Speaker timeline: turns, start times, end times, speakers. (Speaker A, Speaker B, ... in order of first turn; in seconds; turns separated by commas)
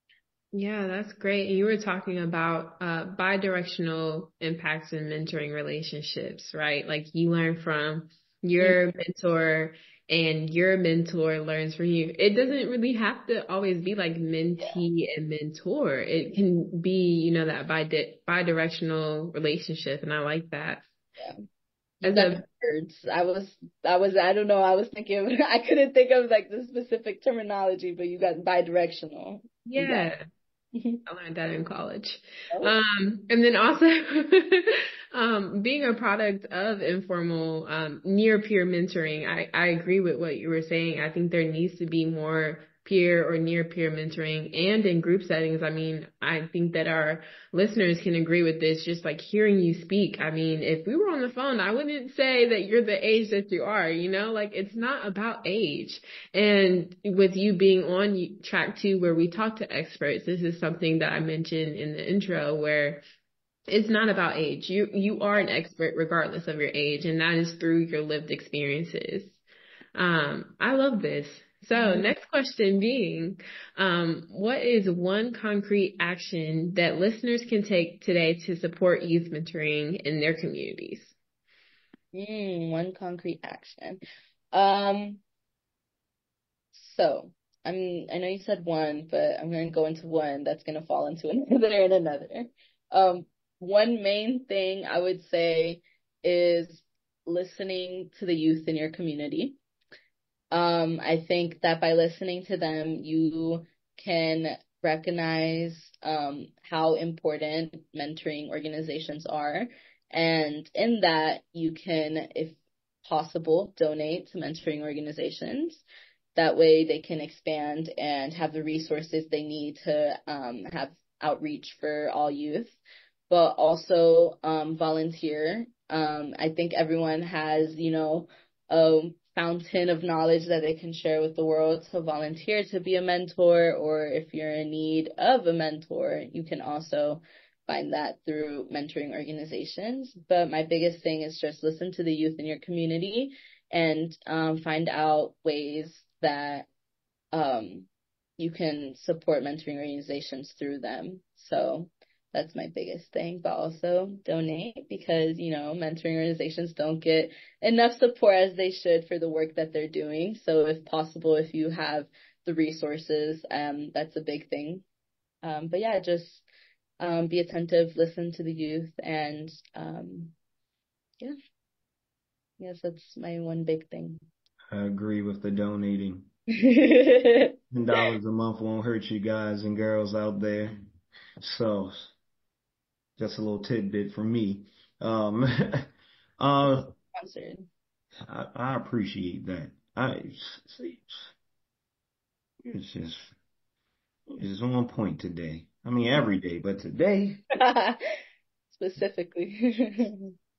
Speaker A: 0.5-20.9, Speaker A: 22.0-22.4, Speaker B: 22.0-30.1, Speaker A: 29.7-30.2, Speaker B: 30.8-31.0, Speaker A: 31.1-63.0, Speaker A: 63.7-69.4, Speaker A: 70.0-81.2, Speaker B: 71.7-72.1, Speaker B: 82.1-84.0, Speaker B: 84.5-85.2, Speaker B: 86.7-99.6, Speaker B: 100.5-115.8, Speaker B: 116.4-122.8, Speaker B: 123.3-146.7, Speaker B: 147.3-164.8, Speaker B: 165.4-166.5, Speaker B: 167.0-170.3, Speaker B: 172.6-174.2, Speaker C: 174.7-176.3, Speaker B: 176.5-178.1, Speaker C: 177.7-180.8, Speaker C: 181.4-182.1, Speaker C: 183.2-185.9, Speaker C: 186.4-186.9, Speaker B: 186.7-187.7, Speaker C: 188.3-191.3, Speaker C: 192.6-193.3, Speaker C: 194.3-197.4, Speaker B: 197.5-198.0, Speaker B: 198.7-200.3